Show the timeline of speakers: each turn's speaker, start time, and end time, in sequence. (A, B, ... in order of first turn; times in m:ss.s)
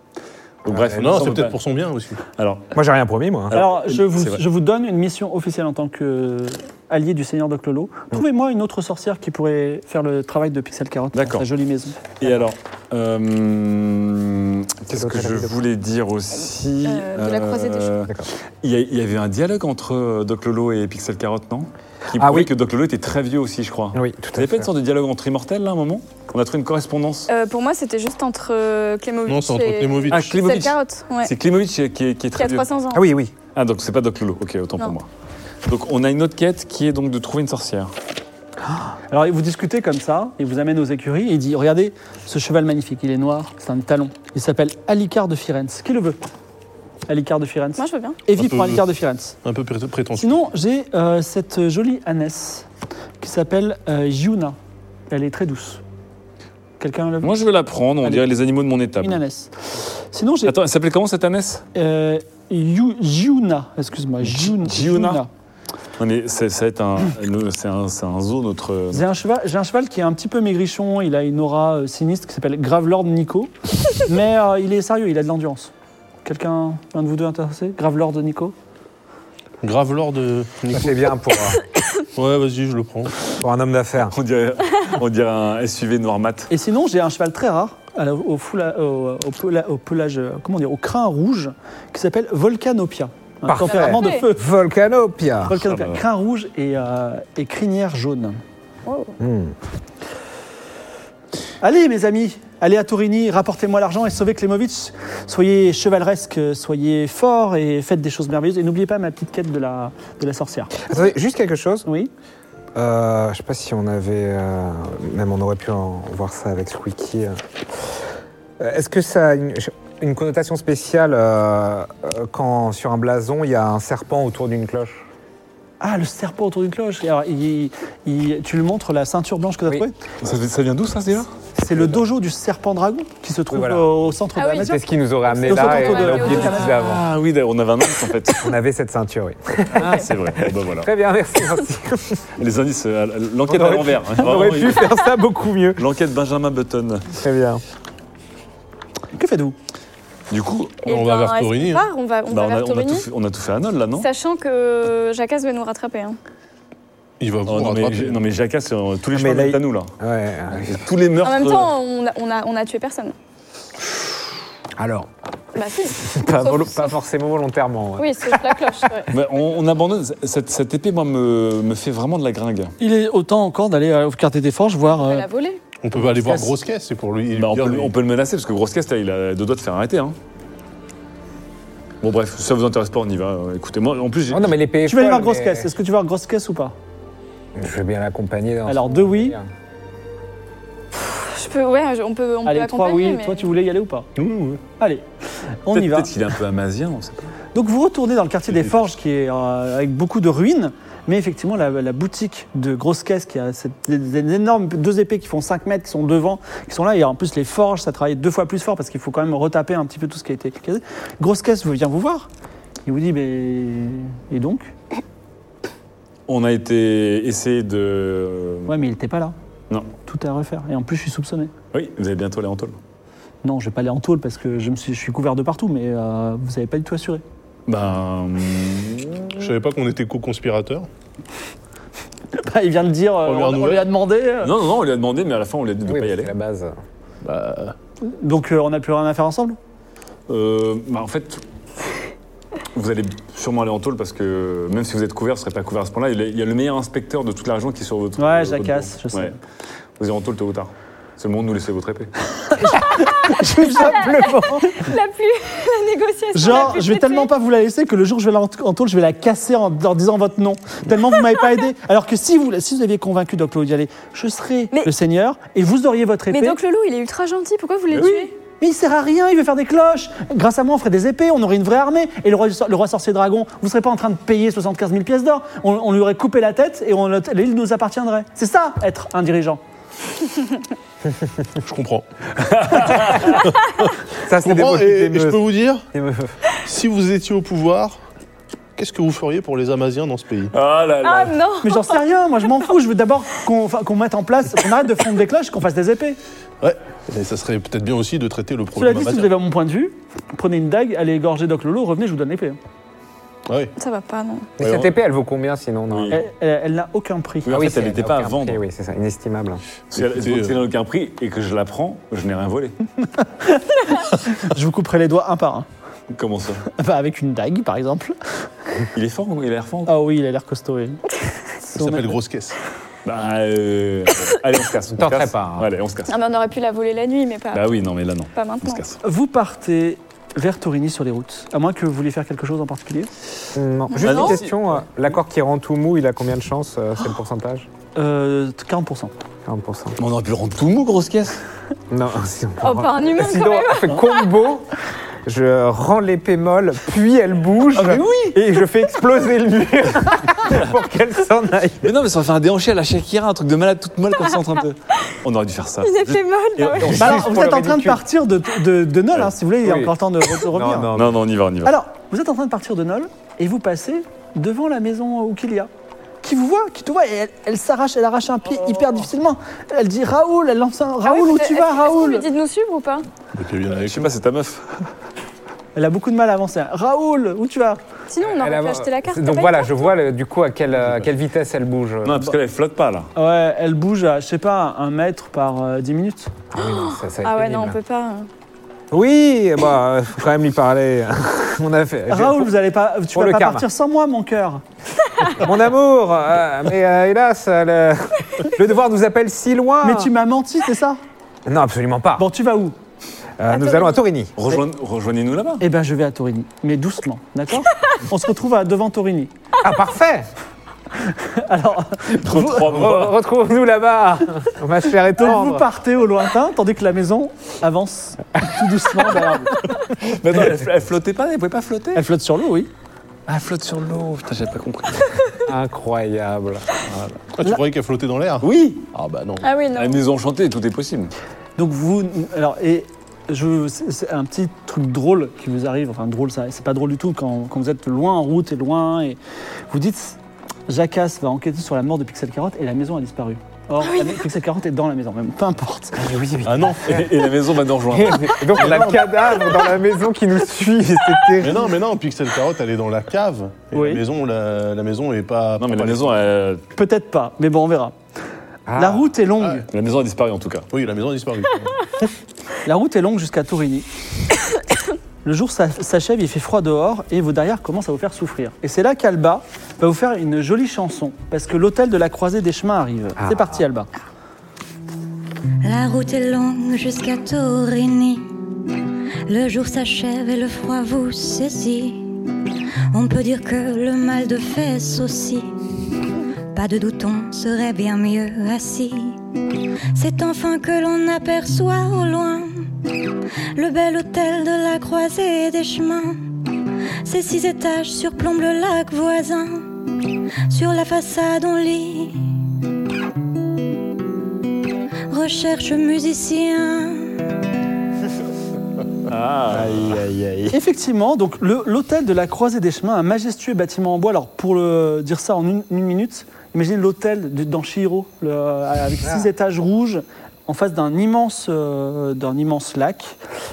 0:00.6-0:01.6 A
0:00.7-0:01.3 B
0:00.8-0:02.2 C
0:02.4-0:02.7 A
0:02.7-0:03.6 B
0:03.5-0:04.4 A
0:03.5-0:12.0 D
0:11.1-0:11.4 A
0:12.2-0:27.3 A
0:14.9-0:15.6 B
0:16.8-0:17.9 E
0:22.1-0:22.5 B
0:23.9-0:24.7 B
0:27.3-0:31.3 E
0:29.3-0:30.4 C
0:30.1-0:32.7 A
0:32.4-0:33.0 E
0:32.9-0:33.3 B
0:33.5-0:35.1 A
0:35.6-0:37.9 A
0:39.1-0:46.2 D
0:47.1-0:49.4 D
0:47.8-0:48.2 E
0:48.4-0:48.8 C
0:49.4-0:50.4 C
0:50.2-0:52.6 D
0:53.2-0:54.6 D
0:55.1-0:55.8 D
0:56.8-0:57.3 D
0:57.2-0:59.2 A
0:59.0-0:59.5 D
1:00.1-1:00.6 D
1:00.4-1:01.6 A
1:01.7-1:05.3 D
1:04.2-1:05.2 A
1:06.0-1:09.0 A
1:08.9-1:15.7 D
1:16.2-1:18.5 D
1:19.6-1:21.0 C
1:20.7-1:21.6 B
1:22.2-1:23.1 C
1:23.4-1:24.1 B
1:24.1-1:26.5 A
1:26.5-1:34.4 D
1:33.5-1:35.6 B
1:33.6-1:34.2 E
1:35.5-1:38.4 D
1:35.6-1:36.0 A
1:38.8-1:39.1 E
1:39.2-1:39.5 B
1:41.6-1:50.8 D
1:50.8-1:51.9 B
1:51.8-1:52.1 D
1:52.7-1:57.4 B
1:58.6-2:05.1 B
2:05.8-2:10.0 D
2:10.2-2:11.3 A
2:11.5-2:14.8 D
2:13.5-2:13.9 B
2:14.4-2:14.7 E
2:14.5-2:17.0 B
2:15.4-2:16.7 E
2:15.4-2:16.7 D
2:16.3-2:18.5 A
2:18.4-2:22.2 B
2:19.8-2:20.9 A
2:22.4-2:24.9 A
2:23.5-2:25.8 B
2:25.8-2:27.1 A
2:27.1-2:27.6 B
2:29.1-2:29.6 D
2:30.3-2:30.8 A
2:30.8-2:33.1 E
2:30.8-2:31.9 C
2:32.3-2:34.1 A
2:34.0-2:36.2 E
2:37.2-2:38.2 C
2:37.5-2:39.9 A
2:39.1-2:40.9 B
2:40.5-2:41.7 A
2:41.2-2:43.1 E
2:44.8-2:45.1 B
2:45.5-2:46.9 E
2:46.0-2:48.8 B
2:48.0-2:49.1 E
2:49.1-2:52.7 A
2:52.8-2:55.3 D
2:54.9-2:55.6 E
2:55.8-2:57.9 C
2:57.3-3:00.2 A
3:02.0-3:04.5 A
3:04.3-3:05.7 B
3:04.8-3:06.7 D
3:07.6-3:09.5 B
3:08.6-3:09.4 D
3:11.0-3:13.5 E
3:12.4-3:14.1 D
3:14.2-3:14.6 C
3:14.8-3:15.0 D
3:15.6-3:16.1 D
3:15.7-3:17.3 A
3:17.5-3:32.3 D
3:32.8-3:34.7 D
3:36.3-3:38.7 A
3:38.7-3:39.3 D
3:40.0-3:41.5 D
3:41.7-3:42.8 A
3:43.4-3:47.2 D
3:47.7-3:49.4 A
3:49.3-3:50.9 C
3:52.3-3:54.5 D
3:53.2-3:53.9 C
3:54.4-3:56.3 A
3:55.8-3:56.8 B
3:57.2-3:57.8 C
3:58.0-3:59.6 D
4:00.3-4:01.4 A
4:02.7-4:09.4 A
4:08.2-4:09.4 D
4:10.0-4:12.1 A
4:12.5-4:14.8 D
4:13.2-4:14.6 B
4:13.6-4:17.3 E
4:16.3-4:26.6 D
4:26.3-4:28.3 E
4:28.0-4:39.6 D
4:41.6-4:42.0 C
4:42.4-4:43.4 A
4:44.2-4:46.3 B
4:44.4-4:45.8 C
4:46.6-4:48.0 C
4:48.8-4:50.5 C
4:50.5-4:51.4 A
4:51.0-4:52.0 E
4:51.6-4:56.2 D
4:56.6-4:59.3 C
4:58.7-5:02.6 D
5:03.5-5:03.7 C
5:03.8-5:04.5 E
5:04.6-5:06.2 B
5:04.6-5:04.9 A
5:05.9-5:06.2 A
5:06.1-5:07.5 D
5:07.4-5:08.6 A
5:07.5-5:09.6 B
5:09.9-5:12.8 A
5:10.0-5:10.6 C
5:13.1-5:15.7 D
5:16.1-5:16.6 A
5:16.7-5:18.2 D
5:18.9-5:19.9 A
5:19.8-5:21.0 D
5:21.7-5:22.2 D
5:21.7-5:22.6 C
5:23.0-5:26.1 A
5:24.9-5:25.7 B
5:26.1-5:27.7 E
5:27.5-5:29.0 A
5:28.3-5:28.8 E
5:29.0-5:33.1 D
5:33.5-5:37.7 B
5:34.0-5:34.4 E
5:34.0-5:34.6 A
5:38.0-5:39.1 D
5:39.4-5:40.0 B
5:40.0-5:41.4 A
5:41.9-5:44.7 B
5:42.6-5:44.2 E
5:45.2-5:51.9 B
5:47.8-5:48.3 D
5:51.8-5:57.2 A
5:55.8-5:57.0 E
5:56.8-5:58.0 B
5:56.9-6:00.9 D
5:59.6-6:01.2 B
6:00.9-6:01.7 A
6:01.6-6:05.7 D
6:06.2-6:12.3 D
6:11.0-6:13.1 E
6:13.3-6:14.1 C
6:13.8-6:14.8 A
6:15.7-6:17.8 D
6:18.1-6:19.7 E
6:18.2-6:22.3 B
6:22.0-6:23.1 A
6:23.2-6:26.3 D
6:26.5-6:27.8 B
6:26.6-6:28.3 E
6:28.9-6:32.5 B
6:32.1-6:34.6 D
6:33.1-6:33.7 B
6:35.2-6:40.1 B
6:39.8-6:41.0 D
6:41.4-6:42.3 B
6:42.2-6:42.7 D
6:43.4-6:44.3 B
6:43.5-6:44.0 E
6:44.4-6:45.6 A
6:45.6-6:49.3 D
6:49.6-6:50.3 B
6:51.0-6:52.7 D
6:52.2-6:53.2 A
6:52.5-6:55.6 B
6:55.2-6:59.6 D
6:59.8-7:02.0 A
7:01.9-7:02.7 D
7:03.3-7:05.2 A
7:05.5-7:06.7 B
7:06.9-7:07.2 A
7:07.4-7:09.5 C
7:08.4-7:08.8 A
7:09.4-7:10.0 E
7:09.7-7:11.1 A
7:11.6-7:19.2 D
7:19.7-7:26.1 D
7:23.8-7:24.1 E
7:26.0-7:27.0 B
7:26.4-7:27.1 C
7:26.8-7:28.8 A
7:27.9-7:31.7 B
7:28.6-7:29.1 C
7:31.4-7:36.2 C
7:33.7-7:34.0 D
7:35.6-7:36.6 A
7:36.7-7:38.0 D
7:38.7-7:39.1 B
7:38.8-7:39.7 D
7:39.7-7:40.7 A
7:40.7-7:41.8 C
7:42.6-7:43.9 D
7:45.2-7:53.9 D
7:53.2-7:53.6 B
7:55.6-7:58.3 F
7:59.3-8:02.1 F
8:02.9-8:05.5 F
8:06.5-8:09.2 F
8:09.9-8:12.7 F
8:13.6-8:16.2 F
8:17.0-8:19.7 F
8:20.5-8:22.2 F
8:25.1-8:27.2 F
8:29.1-8:30.0 A
8:29.5-8:30.6 B
8:30.5-8:43.2 D